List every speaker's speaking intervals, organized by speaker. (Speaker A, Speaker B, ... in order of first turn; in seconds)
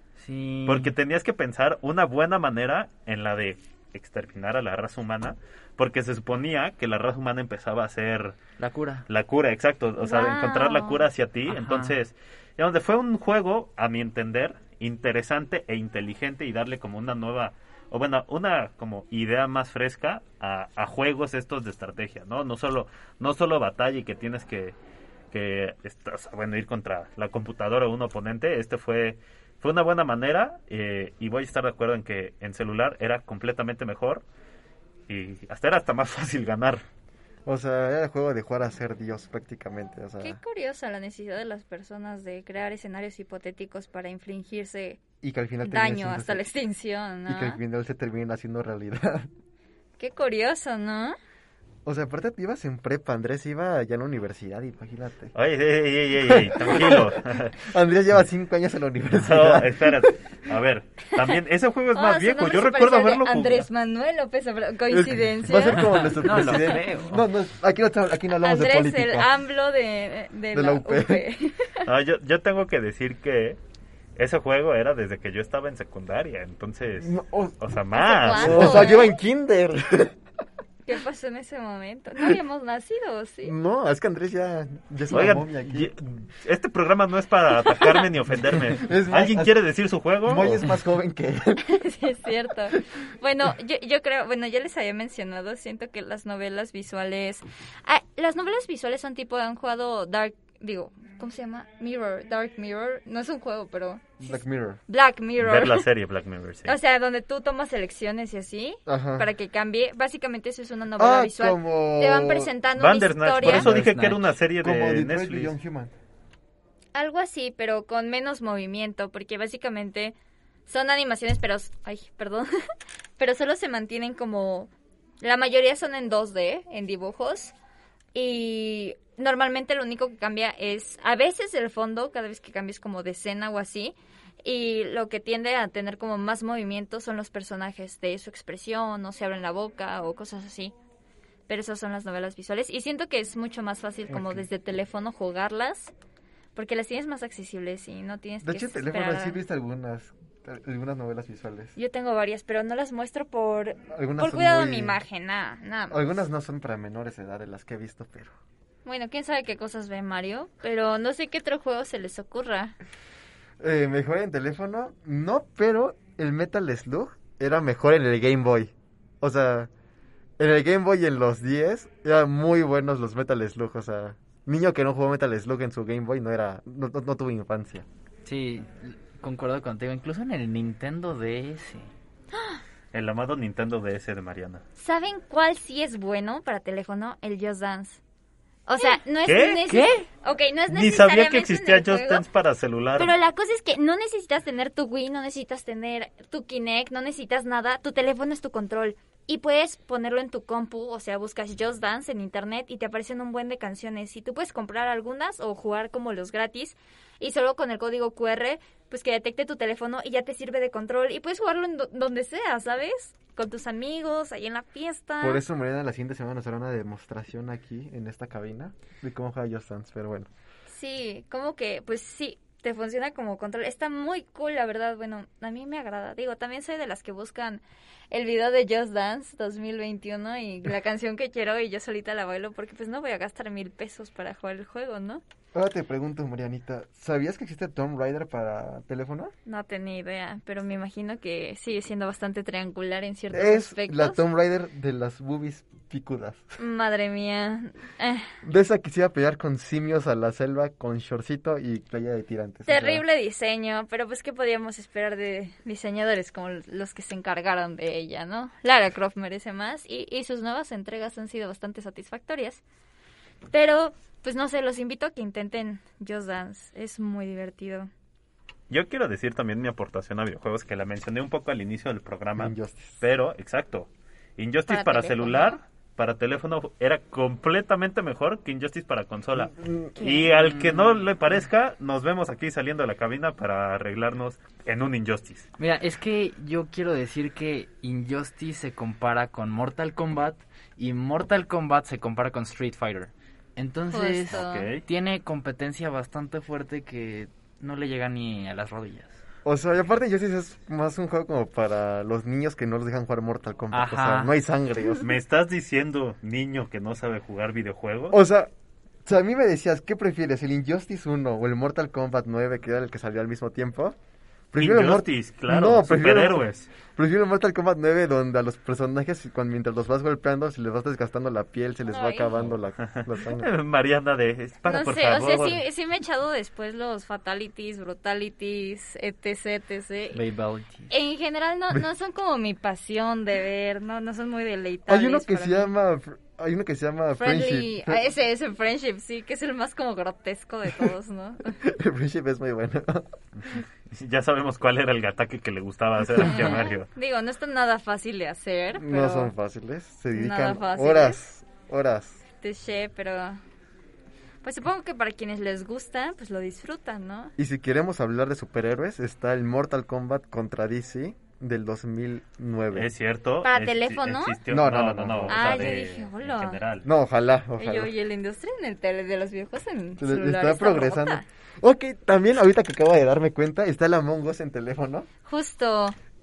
Speaker A: 0.2-0.9, 8.6-9.0, 11.5-11.9, 65.7-67.2, 113.4-114.2, 178.2-181.9, 189.7-190.0, 280.2-281.1, 285.6-299.2, 303.7-304.3, 330.1-330.9
Speaker B: 0.7-8.4, 9.1-24.8, 25.3-34.2, 35.1-36.8, 55.3-57.6, 59.1-63.7, 71.8-73.6, 74.2-79.0, 85.1-90.6, 105.4-106.7, 112.8-115.5, 182.9-184.6, 189.2-189.7, 190.7-193.1, 268.7-285.5, 294.3-294.8, 305.0-308.2, 314.6-316.7, 322.8-325.6, 343.5-346.9, 362.7-366.9
Speaker C: 10.0-11.0, 40.2-45.0, 45.6-47.6, 50.0-51.1, 61.9-65.9, 68.4-71.7, 77.9-79.1, 80.8-83.5, 91.6-104.3, 104.9-105.9, 106.7-113.7, 116.9-120.1, 120.7-122.5, 123.2-124.7, 125.2-127.5, 128.1-140.7, 141.5-145.9, 146.5-149.4, 151.8-156.0, 158.8-162.7, 182.3-182.6, 184.8-188.0, 188.7-192.2, 193.0-215.4, 220.7-235.2, 239.4-244.2, 246.6-248.3, 252.7-262.6, 263.5-267.9, 274.7-275.6, 293.9-294.7, 321.9-322.4, 324.6-330.2, 330.9-335.7, 337.2-341.6, 346.2-349.3, 350.1-351.2, 352.4-353.4, 354.4-357.3, 363.4-364.4, 365.3-366.6, 367.6-371.2, 375.3-375.9
Speaker D: 37.5-40.4, 45.2-46.4, 47.3-49.3, 51.8-55.3, 56.2-60.1, 64.9-69.3, 70.5-71.2, 77.0-77.5, 78.3-80.1, 83.4-85.9, 88.6-89.5, 90.2-91.8, 104.2-104.8, 108.8-109.3, 111.0-112.5, 114.6-115.9, 144.1-144.4, 148.4-151.7, 153.9-155.0, 155.9-158.3, 163.6-169.7, 170.4-177.8, 215.2-220.3, 235.5-239.3, 243.3-246.4, 248.4-253.0, 272.4-273.0, 279.4-280.1, 299.4-305.1, 308.1-308.5, 309.0-313.9, 314.5-323.5, 334.9-338.0, 341.6-343.1, 348.7-352.2, 357.4-362.9, 364.5-365.8, 366.8-367.9, 370.0-375.1